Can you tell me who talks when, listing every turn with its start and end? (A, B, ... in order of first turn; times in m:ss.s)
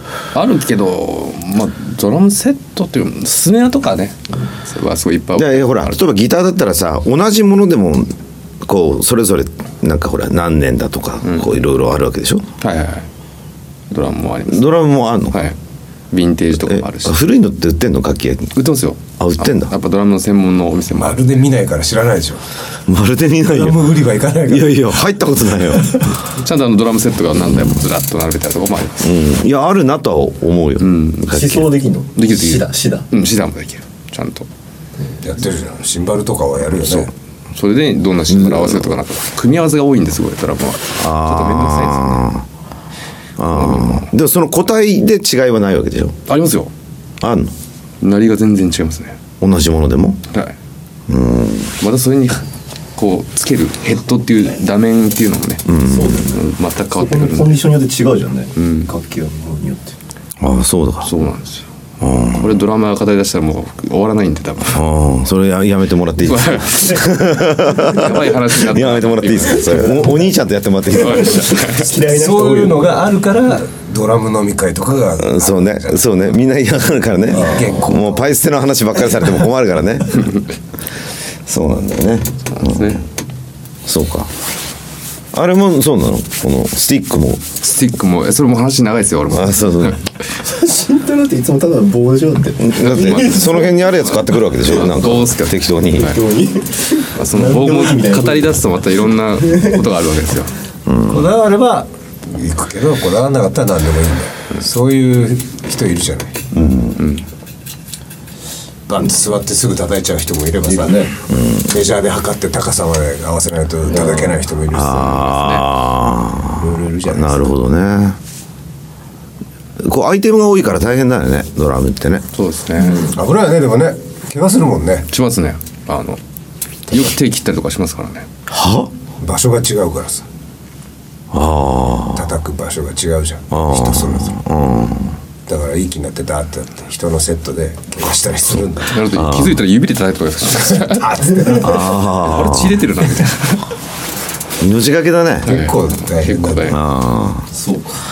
0:00.3-0:05.7 A
0:05.4-0:12.5 B
0:11.2-0:11.6 A
0:12.6-0:13.1 A
0:13.9-0:14.8 A
0:14.5-0:15.4 B
0:15.3-0:15.6 A
0:16.1-0:17.2 A
0:16.6-0:18.6 B
0:18.6-0:21.3 A
0:19.2-0:19.7 B
0:20.9-0:22.4 C
0:22.9-0:26.2 B
0:23.5-0:24.9 C
0:26.3-0:29.2 A
0:29.0-0:31.7 B
0:30.8-0:31.6 A
0:31.3-0:33.1 D
0:32.2-0:34.5 A
0:35.2-0:37.1 C
0:36.8-0:42.3 A
0:38.4-0:38.9 B
0:41.0-0:42.5 B
0:43.4-0:46.2 B
0:43.5-0:44.1 A
0:46.3-0:46.7 A
0:47.2-0:47.5 B
0:48.0-0:49.2 A
0:49.4-0:50.2 B
0:51.1-0:51.8 B
0:51.8-0:52.4 A
0:53.0-0:55.6 A
0:55.7-0:56.2 B
0:55.8-1:00.0 D
0:56.3-0:57.7 A
0:58.6-0:58.9 A
1:00.4-1:01.1 B
1:01.0-1:01.7 A
1:02.0-1:02.6 B
1:02.3-1:04.8 A
1:04.7-1:11.6 B
1:06.2-1:07.2 A
1:07.7-1:10.0 A
1:09.7-1:10.2 D
1:10.9-1:11.9 A
1:11.0-1:13.1 D
1:11.9-1:16.1 C
1:15.2-1:20.3 B
1:17.3-1:18.3 C
1:17.3-1:17.8 D
1:21.5-1:23.0 B
1:22.5-1:23.0 A
1:23.9-1:24.3 B
1:25.3-1:27.5 B
1:27.6-1:30.1 A
1:29.3-1:30.0 B
1:30.4-1:33.9 D
1:32.6-1:36.2 B
1:34.1-1:36.2 A
1:36.0-1:38.6 D
1:37.2-1:40.5 A
1:39.4-1:39.8 D
1:40.9-1:41.3 B
1:41.0-1:46.4 C
1:46.5-1:47.0 B
1:47.0-1:47.2 A
1:48.9-1:51.1 C
1:50.6-1:51.1 D
1:51.3-1:51.7 B
1:51.6-1:55.5 C
1:53.9-1:54.4 D
1:54.7-1:58.2 B
1:55.3-1:55.7 A
1:56.5-1:57.6 C
1:59.8-2:02.2 B
2:02.3-2:03.1 A
2:02.8-2:03.2 D
2:02.9-2:05.1 C
2:05.1-2:06.2 A
2:06.9-2:08.3 A
2:08.5-2:08.9 B
2:09.2-2:10.2 C
2:11.3-2:12.3 B
2:12.1-2:14.4 C
2:13.5-2:15.2 B
2:15.5-2:19.0 C
2:18.9-2:21.1 A
2:19.1-2:19.6 B
2:20.6-2:21.9 C
2:21.6-2:22.8 B
2:22.0-2:23.7 A
2:24.6-2:25.5 B
2:25.4-2:26.8 C
2:25.5-2:26.8 A
2:26.7-2:27.5 B
2:27.5-2:28.0 D